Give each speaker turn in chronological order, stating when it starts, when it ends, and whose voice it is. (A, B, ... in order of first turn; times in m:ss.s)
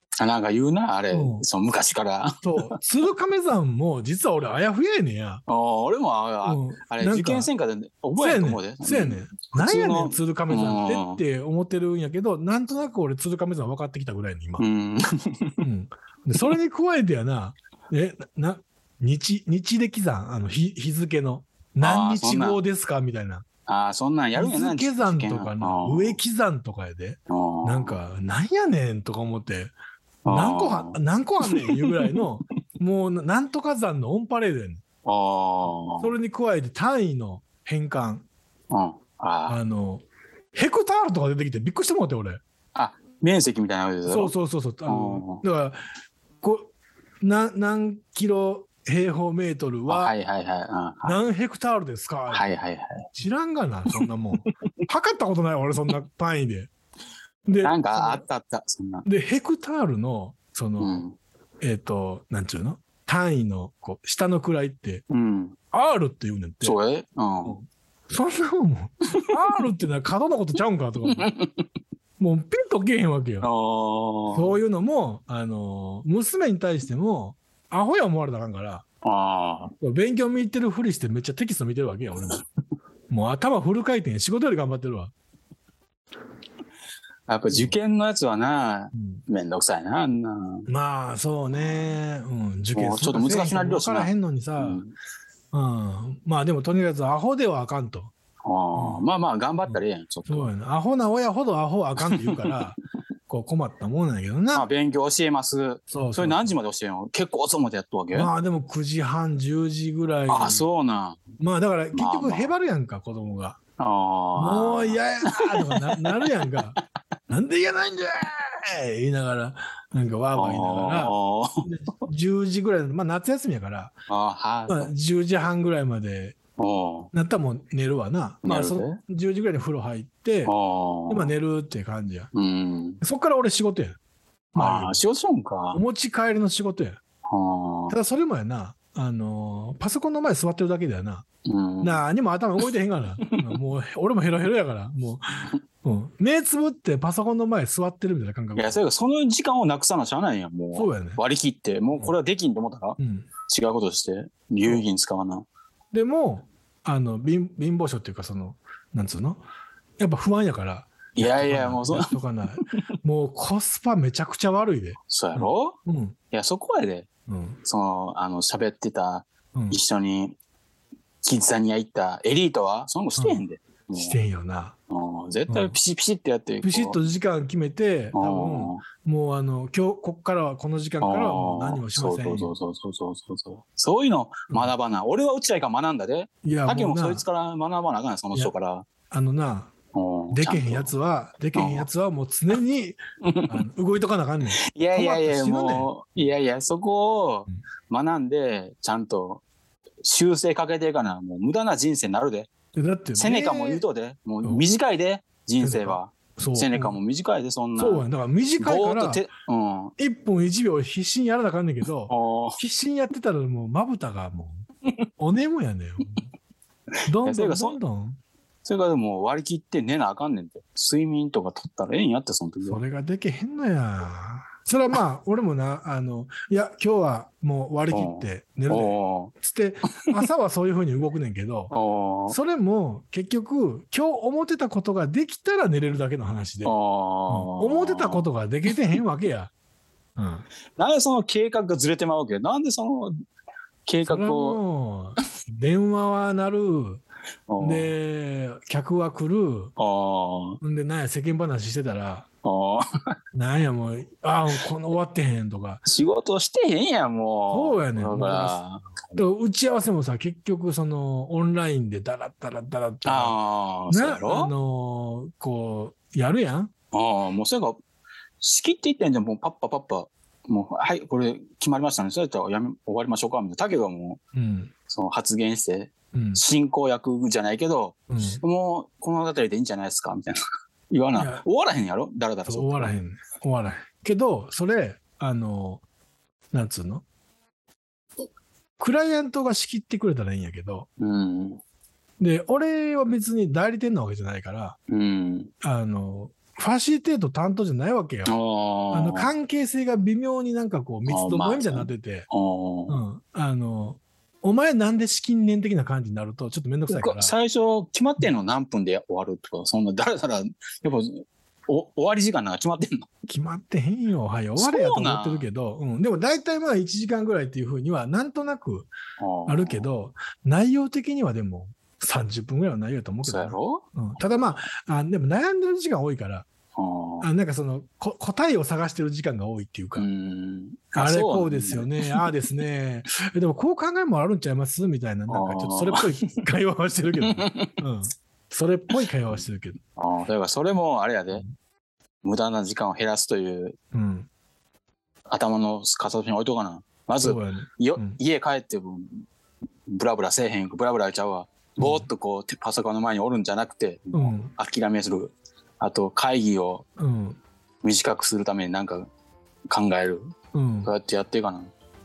0:00.2-0:02.8 A
0:01.1-0:01.4 B
0:02.4-0:05.4 B
0:05.5-0:11.2 A
0:06.4-0:07.5 B
0:08.2-0:14.6 B
0:14.6-0:15.6 A
0:15.6-0:23.4 B
0:21.8-0:22.6 A
0:23.6-0:26.2 A
0:24.3-0:29.7 B
0:27.3-0:28.0 A
0:30.2-0:32.2 A
0:30.3-0:34.8 B
0:35.0-0:36.1 A
0:35.9-0:38.2 B
0:38.7-0:39.6 A
0:39.5-0:42.4 B
0:42.7-0:44.3 A
0:44.0-0:45.8 B
0:44.9-0:45.4 A
0:46.4-0:50.1 B
0:49.9-0:51.2 A
0:51.0-0:52.4 B
0:52.3-0:53.1 A
0:53.1-0:56.7 B
0:57.4-0:58.2 B
0:57.6-0:59.0 A
0:59.0-1:01.0 B
1:00.8-1:01.2 A
1:01.6-1:05.0 B
1:05.1-1:05.5 A
1:05.7-1:06.8 B
1:06.6-1:07.6 A
1:07.4-1:11.3 B
1:11.1-1:11.6 A
1:12.2-1:13.5 B
1:13.4-1:14.6 A
1:14.3-1:18.8 B
1:19.0-1:19.7 A
1:19.8-1:22.4 B
1:23.1-1:25.1 B
1:27.3-1:30.7 A
1:27.5-1:27.8 B
1:28.9-1:29.2 B
1:30.7-1:34.8 B
1:31.5-1:32.0 A
1:32.7-1:34.9 A
1:35.5-1:38.1 B
1:38.4-1:40.5 A
1:38.7-1:39.0 B
1:39.6-1:42.8 B
1:42.0-1:42.6 A
1:43.3-1:44.7 B
1:44.5-1:48.3 A
1:45.9-1:46.5 B
1:48.1-1:50.6 B
1:50.3-1:51.2 A
1:51.4-1:53.6 B
1:51.9-1:52.5 A
1:53.8-1:56.3 A
1:54.4-1:56.8 B
1:57.3-2:03.9 B
2:00.4-2:01.7 A
2:04.1-2:04.9 A
2:04.7-2:06.4 B
2:06.6-2:07.1 A
2:07.1-2:10.5 B
2:08.4-2:09.0 A
2:10.4-2:11.3 A
2:11.1-2:12.3 B
2:12.3-2:13.0 A
2:13.0-2:14.0 B
2:14.5-2:15.0 B
2:14.6-2:15.8 A
2:15.7-2:17.0 B
2:17.3-2:17.9 A
2:17.9-2:21.2 B
2:21.4-2:22.0 A
2:21.8-2:28.8 B
2:28.6-2:35.4 A
2:30.7-2:31.2 B
2:33.0-2:33.3 B
2:35.9-2:39.4 B
2:40.0-2:46.1 B
2:41.2-2:42.6 A
2:45.1-2:45.8 A
2:46.3-2:47.1 A
2:47.3-2:47.6 B
2:47.6-2:50.4 A
2:51.2-2:54.2 A
2:53.2-2:53.4 B
2:53.9-2:54.7 B
2:54.9-2:57.0 A
2:55.5-2:55.8 B
2:56.6-3:02.5 B
2:58.1-2:58.8 A
3:01.0-3:08.8 A
3:06.4-3:07.2 B
3:09.1-3:09.7 B
3:09.9-3:10.9 A
3:10.3-3:16.3 B
3:11.5-3:11.9 A
3:13.2-3:13.6 A
3:14.7-3:19.4 A
3:20.0-3:22.5 A
3:22.7-3:23.8 B
3:23.2-3:28.0 A
3:24.4-3:24.8 B
3:25.6-3:27.0 B
3:27.8-3:29.2 B
3:28.6-3:29.9 A
3:30.0-3:34.6 B
3:32.1-3:32.6 A
3:35.2-3:36.2 B
3:37.1-3:38.2 B
3:37.2-3:37.8 A
3:38.6-3:42.8 A
3:42.6-3:51.7 B
3:47.9-3:49.3 A
3:51.7-3:52.4 A
3:52.3-3:56.7 B
3:56.6-3:58.2 A
3:57.3-3:59.5 B
4:00.2-4:00.4 B
4:00.8-4:03.1 A
4:03.8-4:04.6 A
4:04.0-4:07.0 B
4:07.5-4:07.9 A
4:07.6-4:09.7 B
4:09.8-4:10.6 A
4:10.6-4:12.3 B
4:12.4-4:13.1 A
4:13.3-4:15.8 B
4:15.8-4:18.9 A
4:17.5-4:18.6 B
4:19.1-4:23.3 B
4:23.0-4:24.5 A
4:23.9-4:26.7 B
4:26.9-4:27.8 A
4:28.4-4:34.2 A
4:34.3-4:34.7 B
4:34.9-4:40.4 A
4:36.1-4:36.4 B
4:38.1-4:38.4 B
4:40.9-4:43.0 A
4:41.2-4:41.4 B
4:42.4-4:45.8 B
4:46.5-4:47.0 B
4:48.8-4:50.9 B
4:51.0-4:51.6 A
4:52.2-4:54.8 B
4:54.9-4:55.5 A
4:55.6-4:58.3 B
4:58.2-4:59.3 A
4:58.9-5:02.3 B
5:01.0-5:03.0 A
5:02.9-5:07.3 B
5:06.9-5:13.0 A
5:13.3-5:18.9 B
5:14.6-5:15.5 A
5:19.2-5:19.9 A
5:19.5-5:26.5 B
5:23.2-5:23.8 A
5:26.8-5:27.3 A
5:27.2-5:30.0 B
5:30.0-5:32.3 A
5:31.0-5:39.8 B
5:35.3-5:36.4 A
5:37.2-5:37.8 A
5:40.0-5:41.4 A
5:42.2-5:43.8 A
5:43.9-5:44.3 B
5:45.3-5:49.2 A
5:47.2-5:48.2 B
5:49.9-5:56.8 A
5:51.8-5:52.1 B
5:54.1-5:54.5 B
5:57.0-5:57.4 B
5:57.8-5:59.1 A
5:59.7-6:00.3 A
6:00.5-6:00.9 B
6:00.8-6:01.7 A